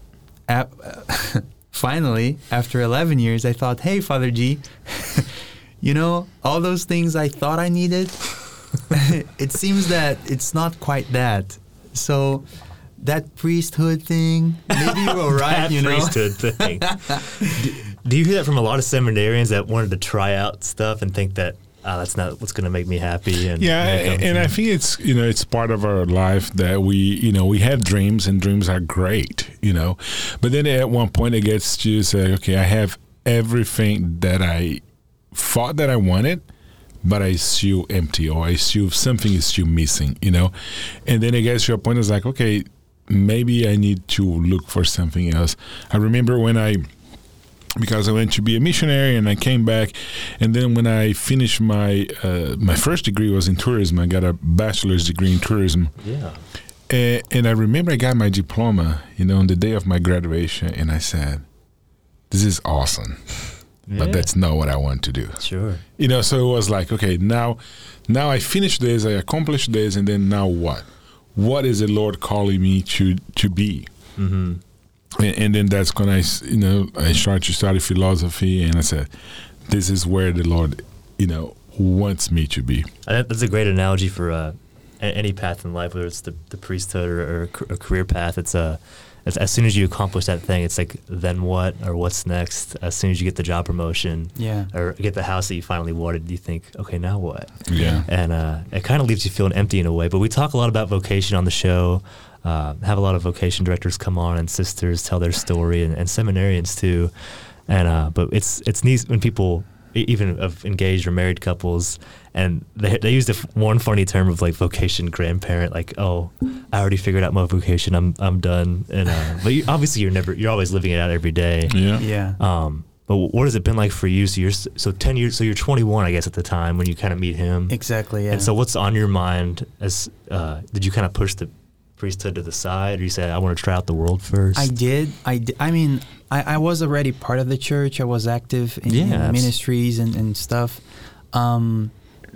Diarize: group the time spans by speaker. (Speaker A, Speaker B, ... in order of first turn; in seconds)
Speaker A: 0.5-12.4, 13.0-17.2, 94.3-94.7, 97.7-98.0, 122.0-122.4, 127.7-128.5, 134.5-141.9
Speaker B: 14.8-24.5, 56.0-56.4, 63.9-64.3, 65.4-65.8, 74.2-74.6, 83.0-107.1, 107.7-127.8, 128.3-134.7, 138.8-139.5
Speaker C: 23.6-36.5, 37.0-46.9, 47.8-55.9, 56.9-61.5, 62.3-65.4, 66.0-73.9, 75.2-79.1, 79.6-82.9, 97.7-98.0, 121.7-122.0